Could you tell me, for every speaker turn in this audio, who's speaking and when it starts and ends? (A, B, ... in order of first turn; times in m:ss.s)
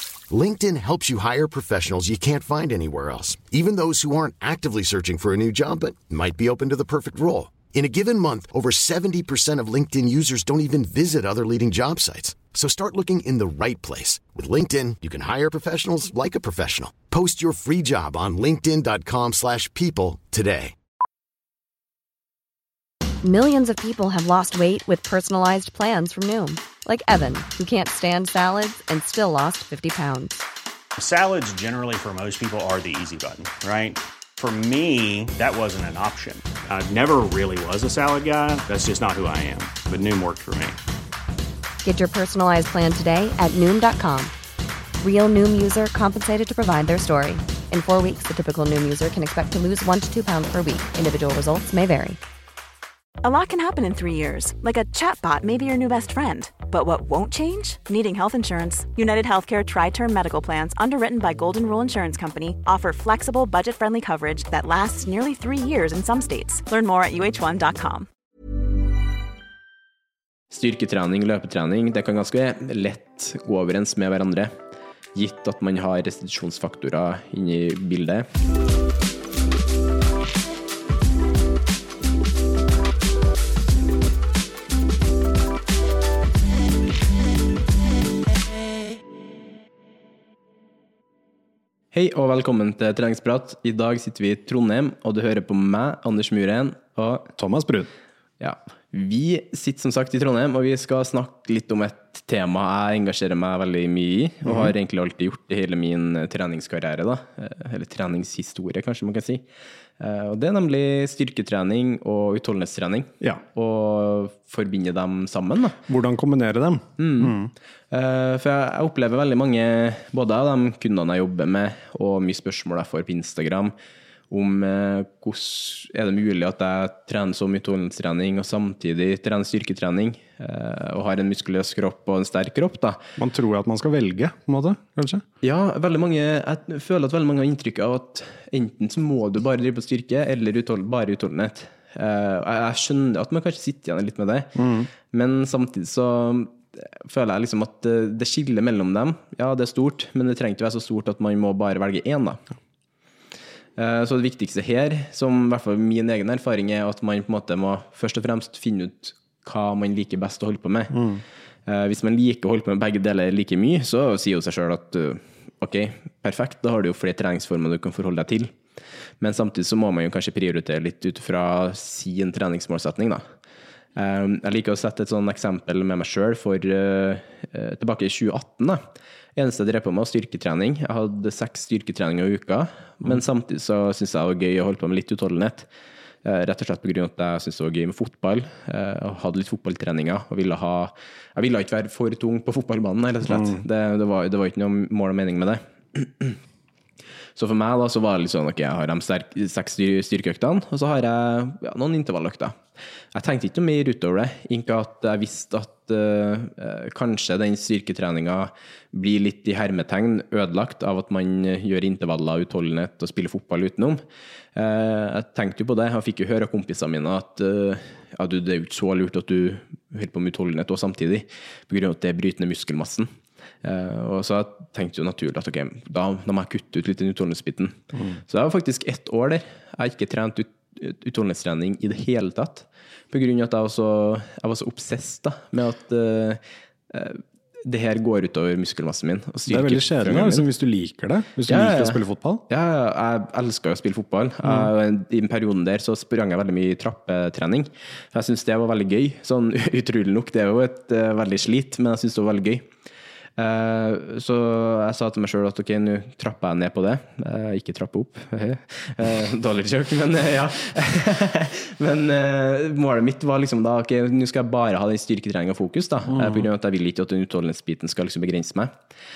0:00.3-0:20.7 A
0:23.2-0:30.4 B
0:31.0-0:40.8 C
0:41.8-0:44.3 B
0:45.0-0:52.2 B
0:53.2-1:08.1 D
1:10.5-1:14.5 E
1:15.1-1:18.3 E
1:31.9-1:37.3 E
1:37.4-1:37.9 F
1:38.4-1:49.4 E
1:44.4-1:44.7 F
1:50.0-1:55.8 E
1:55.9-1:57.5 F
1:57.0-1:57.3 E
1:57.9-2:03.7 E
2:04.3-2:13.0 E
2:13.2-2:15.2 F
2:15.4-2:32.4 E
2:24.5-2:24.9 F
2:33.8-2:41.0 E
2:40.9-2:41.2 F
2:41.6-2:48.5 E
2:49.2-2:53.2 E
2:54.0-2:58.8 E
2:59.4-3:05.7 E
3:06.2-3:16.4 E
3:13.2-3:13.6 F
3:17.4-3:22.6 E
3:23.1-3:34.0 E
3:34.5-3:43.1 E
3:43.6-4:00.4 E
3:47.9-3:48.2 F
3:59.5-4:02.4 F
4:01.5-4:12.6 E
4:04.4-4:04.7 F
4:13.4-4:28.7 E
4:26.1-4:26.5 F